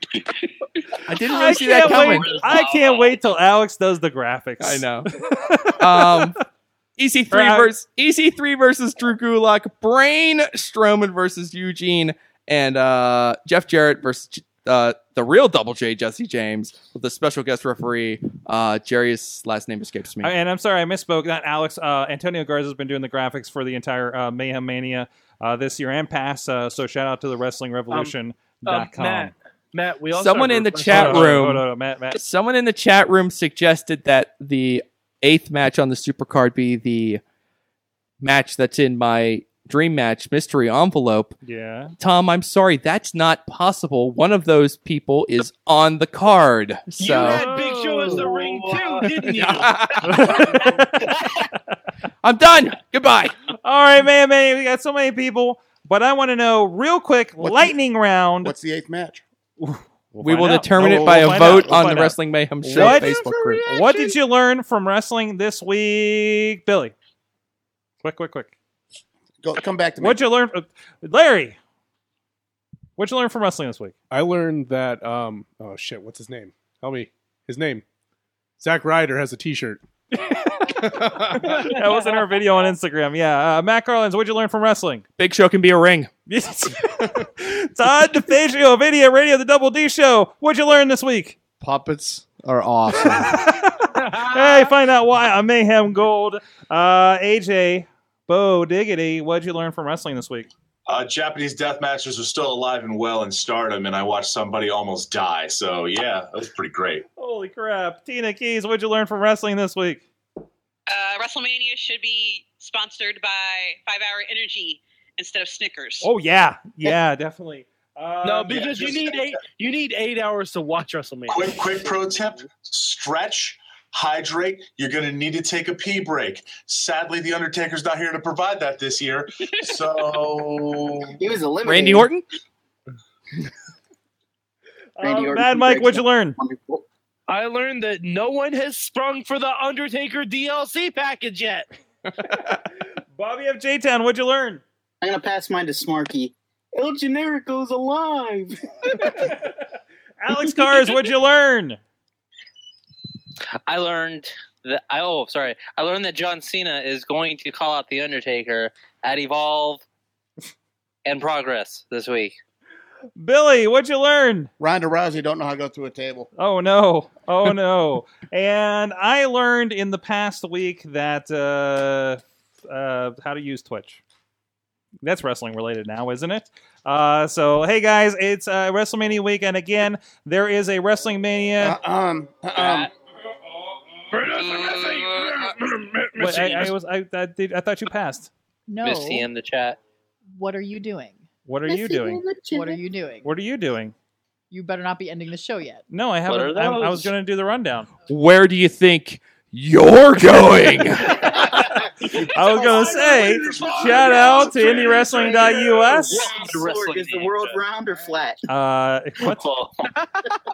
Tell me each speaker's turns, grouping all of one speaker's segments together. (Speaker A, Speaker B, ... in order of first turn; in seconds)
Speaker A: 1.0-2.4, 4.6-5.1, 5.8-6.3, 7.0-20.3, 30.1-37.2, 38.2-41.4, 42.0-47.4, 49.2-50.6, 52.2-53.3, 60.2-63.6, 85.2-86.1, 131.6-132.2, 198.1-201.3
Speaker B: 1.3-6.3, 7.3-7.7, 20.2-29.3, 30.9-32.2, 41.4-41.9, 47.0-49.1, 50.0-51.4, 53.6-58.5, 59.6-66.9, 68.0-68.5, 70.0-71.6, 73.0-73.9, 80.5-85.0, 86.3-91.4, 93.0-100.5, 107.2-110.0, 116.0-119.0, 135.0-136.4, 143.1-144.6, 149.0-149.5, 150.2-151.8, 163.2-164.5, 166.3-174.0, 175.0-181.8, 186.2-188.3, 191.4-192.2, 193.2-193.9, 195.9-197.9, 202.2-206.3, 208.5-209.4
Speaker C: 1.5-3.2, 153.7-159.8, 161.0-162.3, 182.6-182.9, 184.6-184.8, 188.8-189.8, 196.3-197.1, 203.0-204.3, 206.0-207.6, 209.3-209.7
Speaker D: 28.6-31.5, 47.0-50.9, 62.7-64.1, 81.5-82.0, 94.0-94.7, 118.2-122.0, 137.3-141.7, 184.1-186.7
Speaker E: 58.4-59.2, 61.3-61.7, 69.4-70.2, 164.6-166.3, 181.6-182.9
Speaker F: 74.1-77.8, 78.6-79.8, 80.6-81.7
Speaker G: 91.6-93.5
Speaker H: 100.9-107.0, 118.7-119.0, 121.3-131.2
Speaker I: 110.9-116.1
Speaker J: 131.2-132.1, 135.0-136.8, 145.0-149.3, 191.7-192.8, 202.0-208.4
Speaker K: 188.7-189.3, 190.3-191.2, 192.5-193.3, 194.5-195.8